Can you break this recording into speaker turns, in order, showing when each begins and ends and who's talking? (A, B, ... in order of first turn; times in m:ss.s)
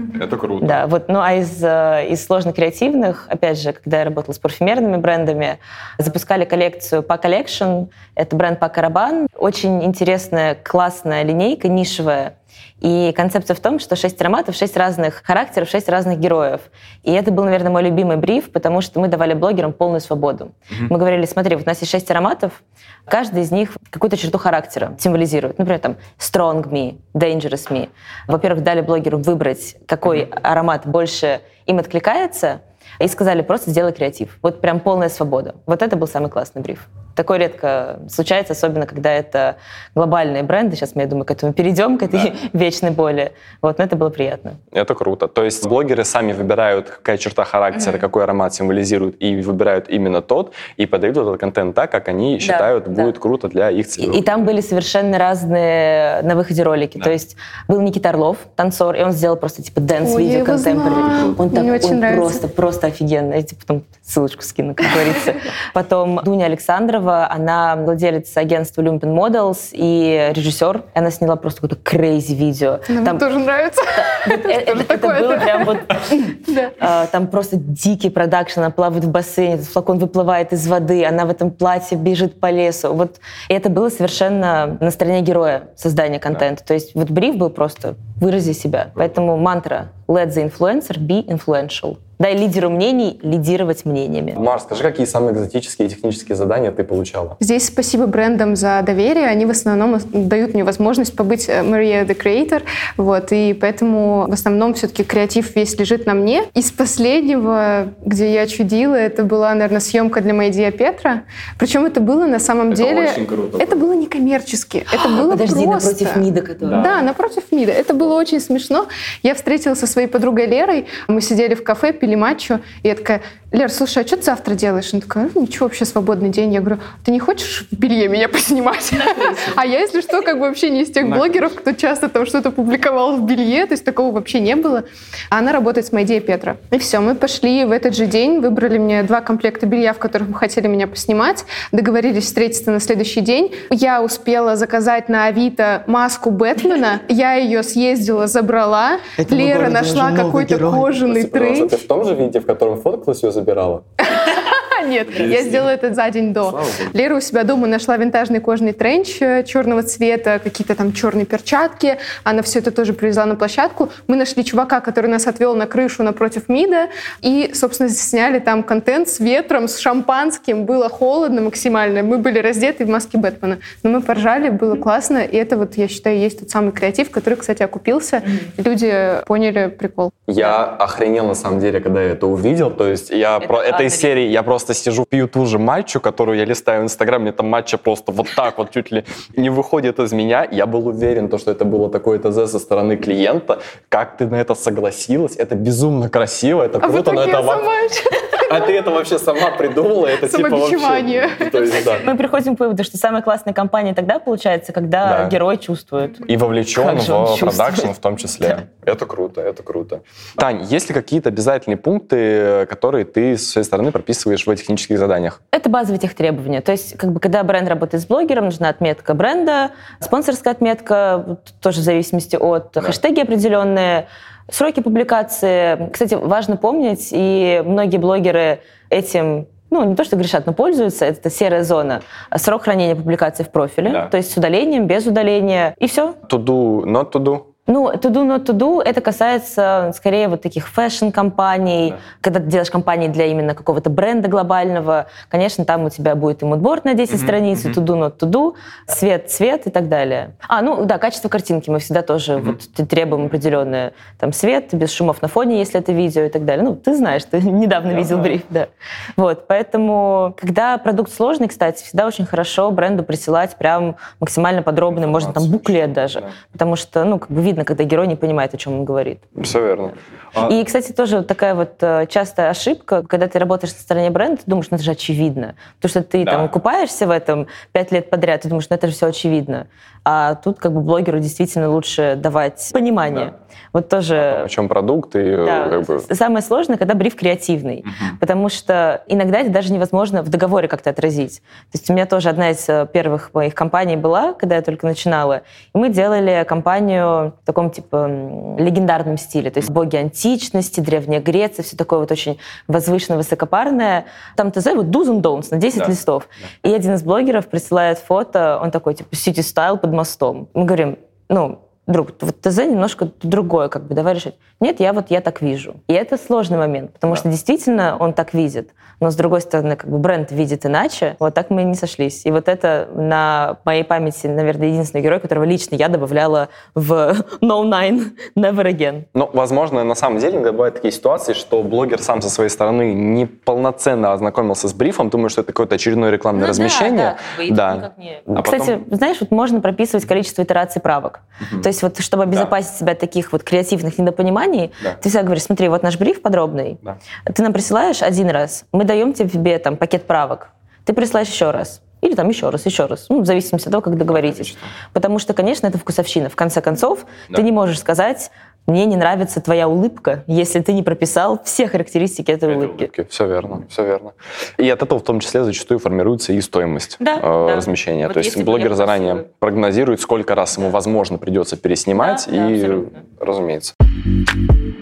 0:00.1-0:00.9 A
0:00.6-0:44.6 B
0:44.7-0:54.2 A
0:52.4-0:53.1 B
0:54.0-1:13.2 B
1:00.0-1:02.4 C
1:12.9-1:15.8 C
1:13.9-1:34.4 B
1:16.4-1:16.7 C
1:34.3-1:37.4 A
1:37.4-2:31.7 C
1:52.7-1:53.8 A
1:54.9-1:56.9 B
1:56.6-1:57.0 A
2:11.1-2:11.4 A
2:29.3-2:30.8 B
2:31.0-2:33.8 A
2:34.0-3:00.2 C
2:35.1-2:35.7 A
2:36.4-2:36.9 A
3:00.3-3:17.7 A
3:03.4-3:04.1 B
3:16.8-3:18.7 C
3:18.4-3:22.1 A
3:20.1-3:21.9 C
3:21.7-3:27.9 B
3:25.0-3:25.4 A
3:26.2-3:35.4 A
3:35.5-3:56.2 B
3:53.8-3:54.1 A
3:56.3-3:57.5 A
3:57.7-4:29.2 B
4:07.1-4:07.8 A
4:17.9-4:18.4 A
4:24.9-4:26.3 A
4:29.4-4:30.5 A
4:30.4-4:44.5 B
4:36.2-4:36.6 A
4:44.2-4:46.0 A
4:45.4-5:29.0 B
5:29.1-5:38.8 A
5:36.4-6:02.9 B
5:54.1-5:54.7 A
6:02.5-6:13.7 A
6:07.0-6:09.2 B
6:12.0-6:13.0 B